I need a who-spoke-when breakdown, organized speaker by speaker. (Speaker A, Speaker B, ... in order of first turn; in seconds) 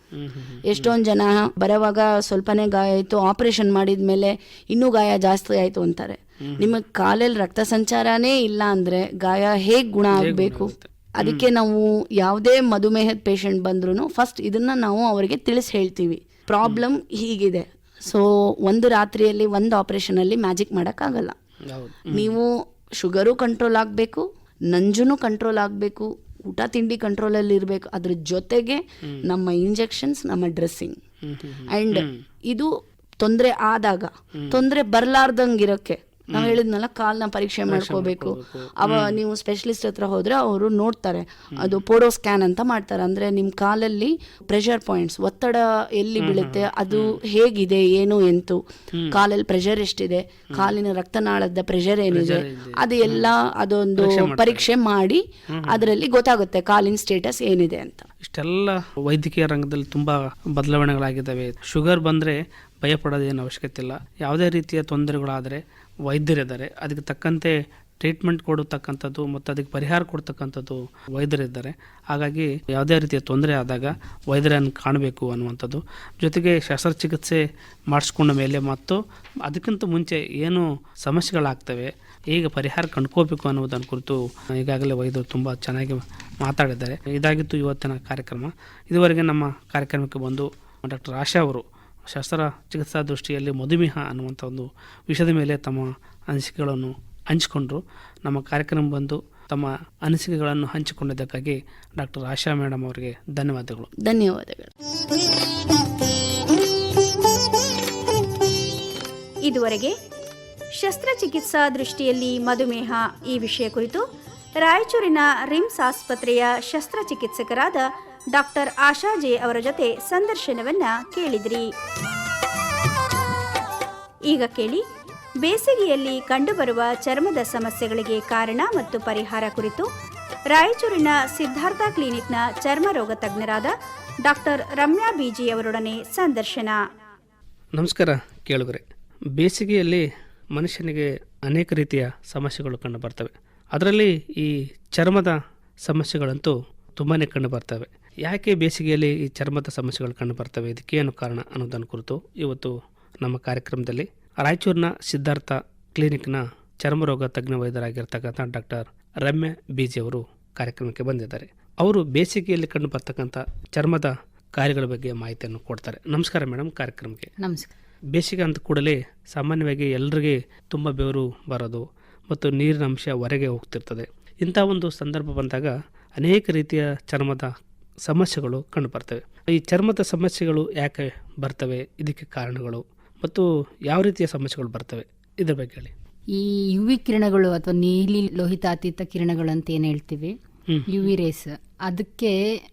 Speaker A: 0.1-0.9, 6.4-6.7, 10.1-11.5, 21.6-22.4, 31.2-32.2, 34.4-34.6, 36.3-36.6, 37.7-39.2, 41.5-41.8, 46.2-47.2, 48.9-49.2, 52.1-53.3, 54.0-54.7, 55.5-55.9, 58.2-103.9, 137.8-138.8, 139.3-167.3, 168.1-177.5, 178.1-185.9, 190.7-191.1
Speaker B: 0.6-21.4, 22.1-31.0, 31.7-58.1, 104.0-104.7
Speaker C: 109.4-110.0, 110.7-114.0, 114.6-121.7, 124.3-124.8, 125.4-129.9, 130.5-133.7, 134.2-136.8
Speaker D: 167.4-167.7, 186.3-190.3, 190.9-192.4